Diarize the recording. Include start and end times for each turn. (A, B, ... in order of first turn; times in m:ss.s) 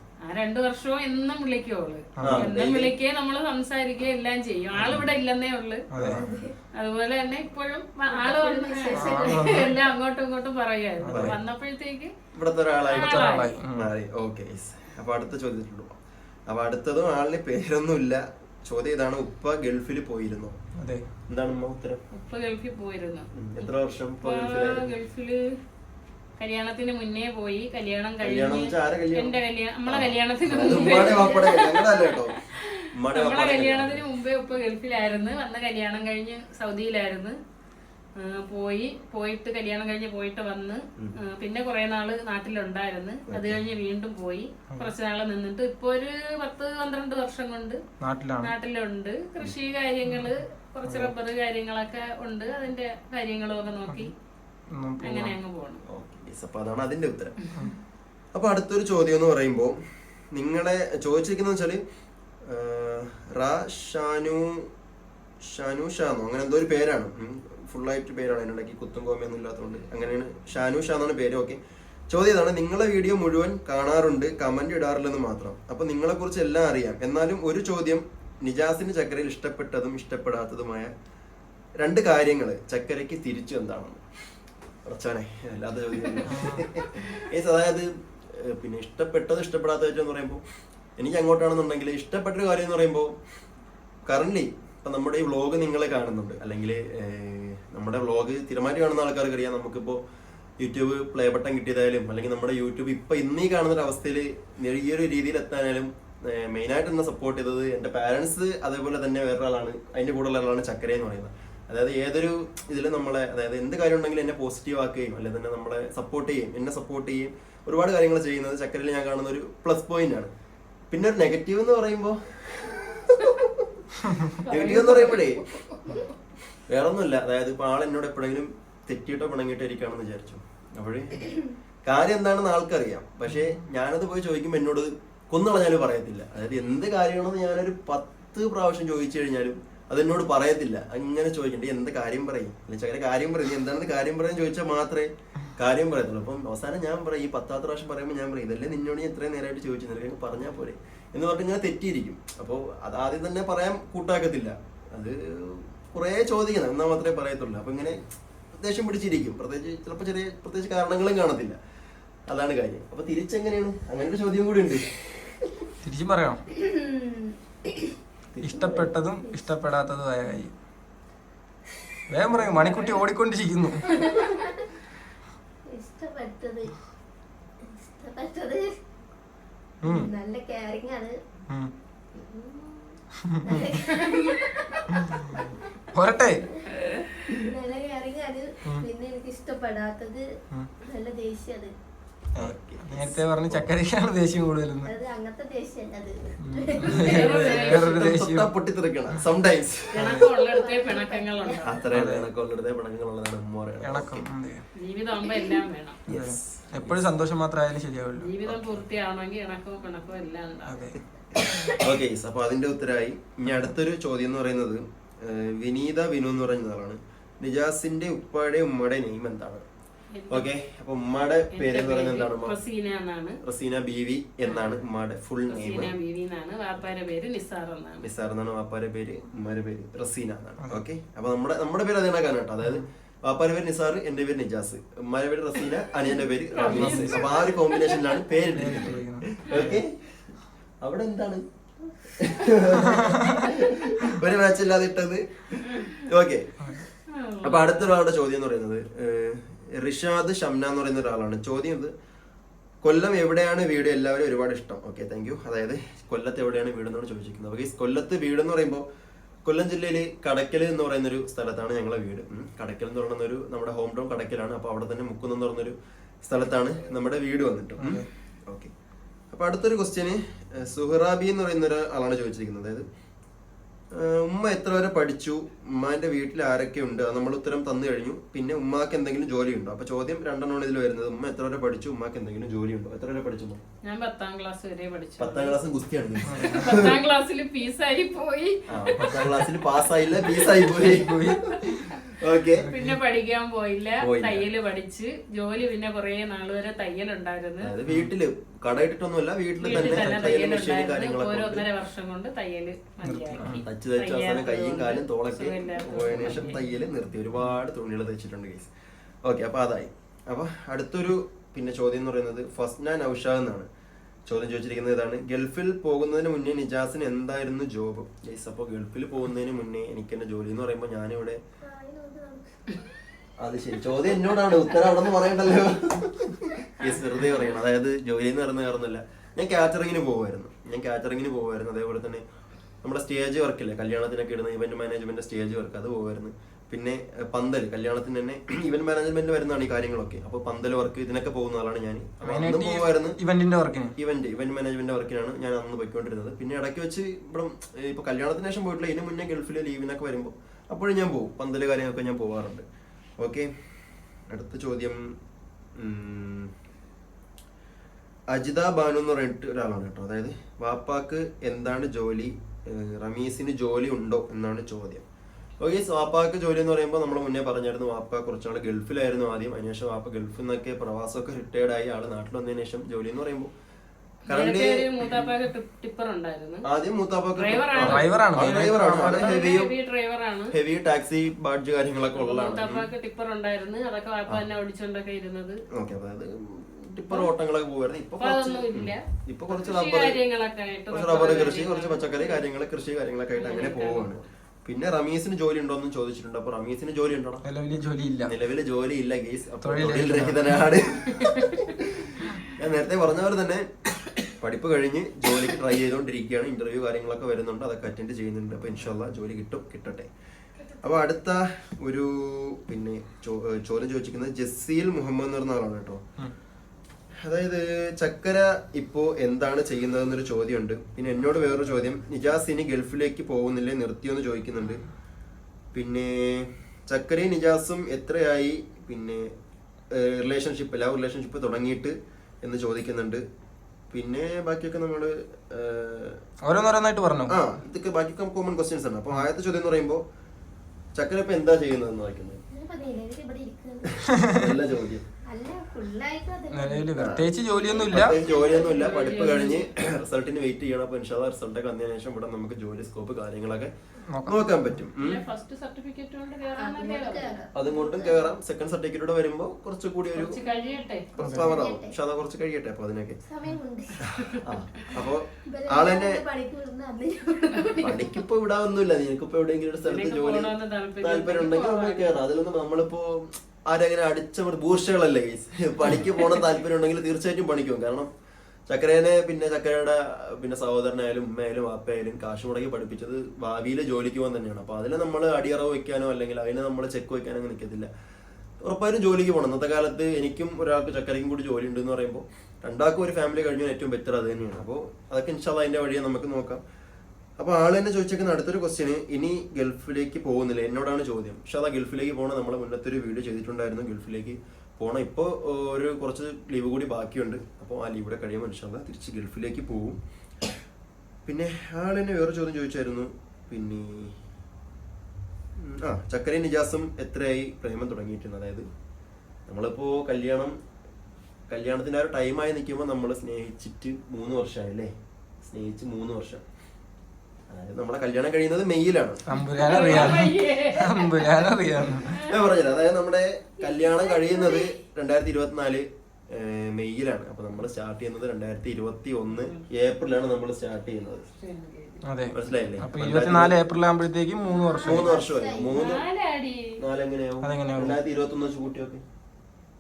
0:00.2-0:05.8 A
0:02.2-0:02.5 B
0:02.2-0:02.9 C
0:05.9-0:06.2 B
0:05.9-0:06.3 C
0:06.1-0:06.6 D
0:06.7-0:12.1 A
0:08.1-0:09.7 D
0:08.9-0:09.7 B
0:11.0-0:11.4 B
0:11.1-0:11.4 C
0:12.3-0:15.9 C
0:12.9-0:13.5 A
0:12.9-0:13.9 B
0:16.5-0:20.6 C
0:20.8-0:21.0 B
0:21.3-0:22.0 C
0:22.1-0:23.7 A
0:23.3-0:24.9 C
0:24.2-0:25.6 A
0:26.4-0:37.4 A
0:28.2-0:32.4 C
0:32.9-0:34.0 C
0:38.2-0:47.8 A
0:43.3-0:43.6 C
0:48.0-0:48.5 B
0:48.4-0:54.1 A
0:50.1-0:50.3 B
0:54.7-0:55.3 B
0:55.0-0:55.8 A
0:55.9-0:57.4 C
0:58.3-0:59.7 C
1:00.3-1:01.8 C
1:02.4-1:04.6 C
1:05.4-1:11.6 C
1:12.1-1:20.9 C
1:21.8-1:24.0 C
1:24.8-1:30.4 C
1:26.3-1:26.6 B
1:31.0-1:33.1 C
1:34.1-1:40.0 C
1:40.6-2:00.3 C
2:00.9-2:03.6 C
2:04.4-2:05.9 A
2:04.4-2:05.4 C
2:06.7-2:38.0 C
2:38.6-2:41.6 C
2:42.3-2:45.4 C
2:45.8-2:46.4 B
2:46.5-2:47.9 D
2:48.3-2:48.9 C
2:48.4-2:50.5 B
2:49.2-2:49.5 D
2:52.1-2:53.9 B
2:52.3-2:53.0 A
2:54.0-2:54.6 D
2:55.7-2:56.7 D
2:57.6-2:58.7 D
2:59.8-3:00.1 B
2:59.8-3:01.1 D
3:02.2-3:02.9 D
3:03.3-3:03.8 B
3:03.4-3:05.5 D
3:04.0-3:04.4 A
3:05.9-3:06.4 B
3:06.8-3:07.0 A
3:07.4-3:10.2 D
3:10.9-3:11.7 D
3:12.4-3:14.9 B
3:12.4-3:13.7 C
3:14.8-3:17.3 D
3:16.4-3:18.5 B
3:17.0-3:18.1 A
3:17.1-3:20.1 C
3:19.9-3:21.8 A
3:20.0-3:20.2 B
3:20.4-3:21.8 D
3:21.6-3:24.3 C
3:21.9-3:22.3 B
3:23.8-3:24.6 B
3:24.8-3:26.0 A
3:25.2-3:25.6 D
3:26.1-3:27.0 C
3:26.1-3:28.3 B
3:28.2-3:30.9 A
3:28.4-3:28.8 C
3:30.7-3:31.8 B
3:31.7-3:39.6 C
3:40.1-3:40.5 A
3:40.3-3:42.6 C
3:41.5-3:43.4 A
3:43.4-3:45.9 C
3:44.4-3:44.8 A
3:45.5-3:48.0 A
3:48.0-3:59.9 C
3:56.5-3:57.5 A
3:56.7-3:57.3 B
3:58.5-3:59.8 B
4:00.8-4:01.4 C
4:02.1-4:06.8 C
4:02.8-4:03.3 B
4:05.7-4:06.0 A
4:07.1-4:07.9 A
4:07.4-4:11.9 C
4:12.8-4:18.8 C
4:19.4-4:28.7 C
4:27.8-4:28.0 B
4:29.3-4:32.8 C
4:33.9-4:43.6 C
4:43.8-4:45.6 A
4:45.2-4:46.9 C
4:46.3-4:46.8 B
4:46.3-4:49.0 A
4:48.7-4:52.7 C
4:49.0-4:49.5 B
4:50.3-4:52.0 B
4:52.6-4:53.0 B
4:52.7-4:57.7 A
4:54.0-4:54.5 C
4:57.6-5:01.6 C
4:59.6-5:06.6 A
4:59.8-5:00.3 B
5:03.0-5:03.6 B
5:03.4-5:08.7 C
5:06.2-5:06.4 B
5:09.2-5:13.7 C
5:14.3-5:21.4 C
5:21.6-5:22.6 D
5:23.4-5:32.2 C
5:26.8-5:27.4 A
5:32.8-5:43.2 C
5:42.2-5:43.9 B
5:44.0-5:52.6 C
5:53.2-5:53.5 C
5:54.3-5:55.1 C
5:55.8-5:56.5 C
5:58.3-6:05.0 C
6:05.6-6:13.5 C
6:14.3-6:15.3 C
6:14.3-6:16.6 A
6:16.6-6:19.7 C
6:17.4-6:20.5 A
6:17.8-6:19.5 B
6:20.5-6:22.9 C
6:22.1-6:25.6 A
6:25.7-6:30.2 C
6:28.2-6:32.4 A
6:30.9-6:37.4 C
6:33.4-6:34.1 A
6:37.4-6:38.3 B
6:38.2-6:43.7 C
6:39.6-6:40.6 B
6:44.2-6:50.1 C
6:50.8-6:56.0 C
6:57.2-7:04.8 C
7:05.7-7:09.3 C
7:09.9-7:13.2 C
7:13.9-7:16.2 C
7:16.4-7:17.4 B
7:17.3-7:20.0 C
7:21.0-7:22.4 C
7:22.5-7:24.0 D
7:24.0-7:25.0 C
7:25.3-7:27.0 D
7:26.5-7:28.2 B
7:27.0-7:27.3 C
7:27.7-7:29.0 D
7:27.9-7:33.7 C
7:28.6-7:29.7 A
7:34.1-7:34.8 B
7:34.2-7:35.2 C
7:35.0-7:37.4 A
7:36.5-7:38.4 D
7:37.5-7:40.4 C
7:40.1-7:41.1 A
7:40.4-7:41.9 D
7:41.2-7:43.2 C
7:41.2-7:41.6 B
7:43.2-7:44.0 D
7:44.1-7:46.2 C
7:45.5-7:48.2 D
7:47.8-7:58.1 C
7:49.8-7:52.2 A
7:58.7-8:07.9 C
8:08.6-8:16.6 C
8:17.4-8:30.0 C
8:31.2-8:34.1 C
8:35.6-8:38.7 C
8:39.5-8:40.6 C
8:41.5-8:44.9 C
8:45.4-8:46.4 C
8:47.5-8:50.2 C
8:49.3-8:52.2 B
8:49.6-8:52.2 A
8:52.2-9:01.2 C
8:53.6-8:54.7 D
8:59.4-8:59.6 A
9:01.4-9:02.0 A
9:02.0-9:05.1 B
9:02.3-9:03.6 C
9:04.4-9:05.8 D
9:04.8-9:06.0 C
9:05.7-9:06.6 A
9:06.8-9:09.0 C
9:07.4-9:08.0 B